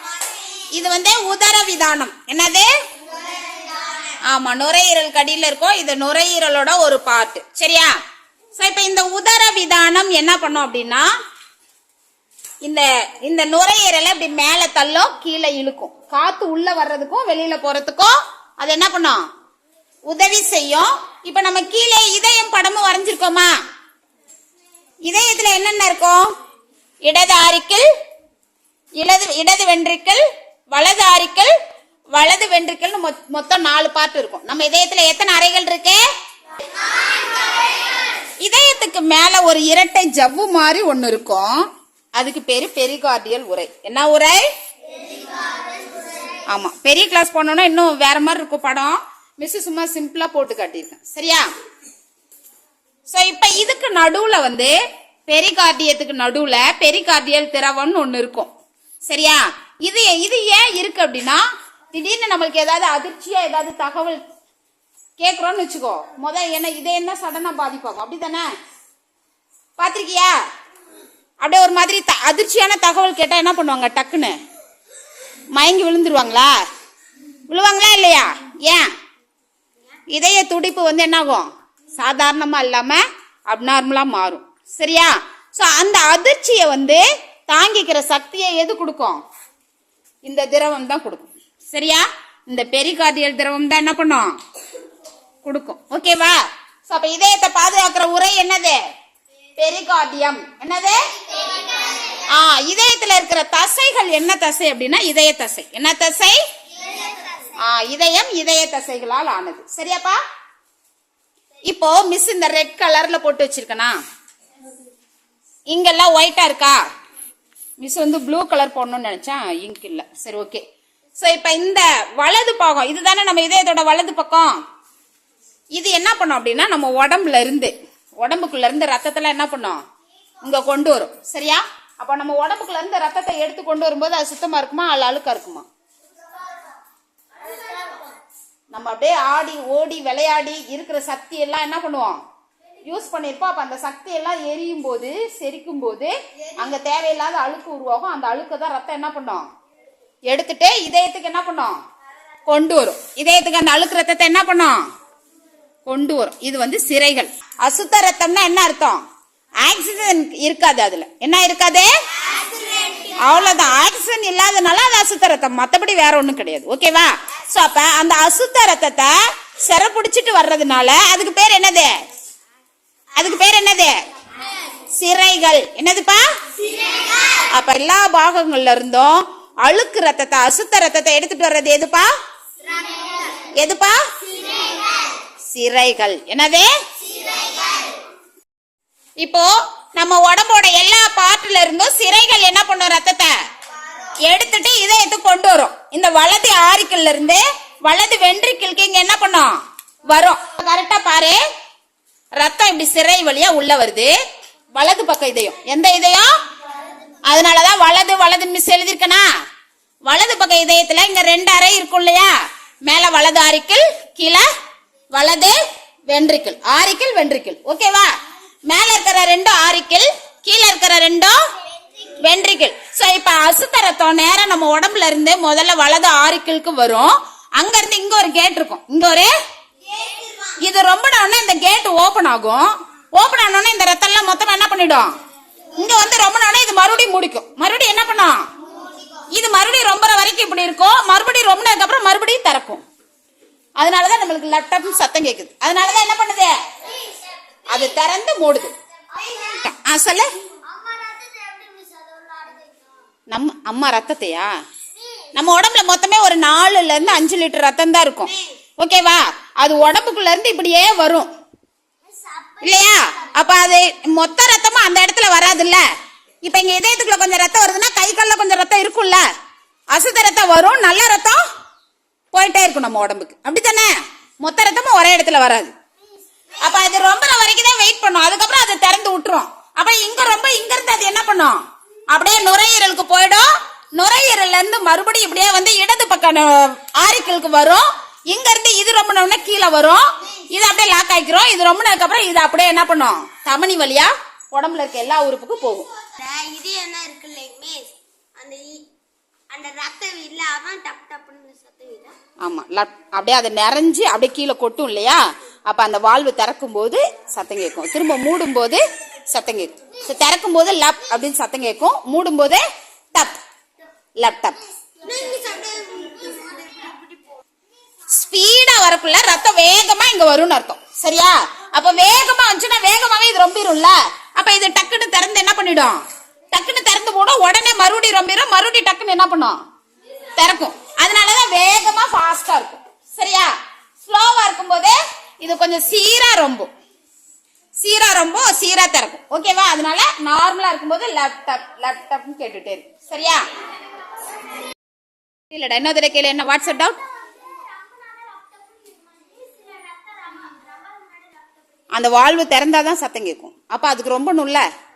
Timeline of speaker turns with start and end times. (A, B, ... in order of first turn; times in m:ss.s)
0:00.7-0:02.7 A
0:04.3-0:08.0 A
0:08.6-0:11.1 A
0:12.6-0:19.2 A
0:20.1-0:23.6 A
0:25.1-0:26.3 A
0:27.0-0:27.9 A
0:29.0-0:31.5 A
0:32.1-0:36.0 A
0:38.4-0:44.5 A
0:46.5-0:51.5 A
0:53.1-0:54.7 A
0:55.3-0:58.5 A
0:59.1-1:04.2 A
1:05.2-1:08.5 A
1:09.8-1:10.3 A
1:11.4-1:14.4 A
1:15.5-1:16.5 A
1:17.5-1:18.9 A
1:20.1-1:29.2 A
1:30.2-1:34.4 A
1:35.4-1:38.8 A
1:39.6-1:41.0 A
1:42.3-1:46.4 A
1:47.0-1:47.2 B
1:47.6-1:50.2 A
1:51.7-1:54.0 A
1:55.7-1:56.8 A
1:57.8-2:00.6 A
2:01.2-2:04.6 A
2:05.8-2:09.8 A
2:10.4-2:15.6 A
2:18.7-2:22.2 A
2:22.8-2:29.5 A
2:30.3-2:31.8 A
2:32.5-2:34.8 A
2:35.9-2:39.0 A
2:39.6-2:41.9 A
2:42.2-2:43.3 B
2:43.2-2:52.0 A
2:53.2-2:54.0 A
2:54.9-2:56.3 A
2:57.4-3:02.1 A
3:03.6-3:04.0 A
3:05.5-3:06.7 A
3:09.2-3:13.4 A
3:14.2-3:19.6 A
3:20.1-3:21.4 A
3:22.4-3:24.2 A
3:24.8-3:26.4 A
3:27.3-3:29.3 A
3:30.1-3:32.3 A
3:32.8-3:34.5 A
3:35.1-3:35.6 A
3:36.1-3:38.1 A
3:38.7-3:41.4 A
3:42.2-3:49.3 A
3:50.6-3:55.1 A
3:55.8-3:58.4 A
3:59.3-4:02.8 A
4:03.8-4:06.6 A
4:07.7-4:08.7 A
4:09.3-4:10.3 A
4:10.7-4:12.9 B
4:13.3-4:14.5 A
4:15.3-4:21.3 A
4:22.6-4:25.8 A
4:26.4-4:29.2 A
4:29.9-4:31.4 A
4:32.3-4:35.7 A
4:36.6-4:55.9 A
4:56.2-4:58.9 B
4:59.5-5:02.2 B
5:02.4-5:13.4 A
5:14.2-5:14.6 A
5:15.0-5:17.1 B
5:18.1-5:29.6 A
5:30.4-5:36.7 A
5:37.8-5:43.5 A
5:45.5-5:47.0 A
5:47.4-5:51.4 B
5:51.9-5:54.6 A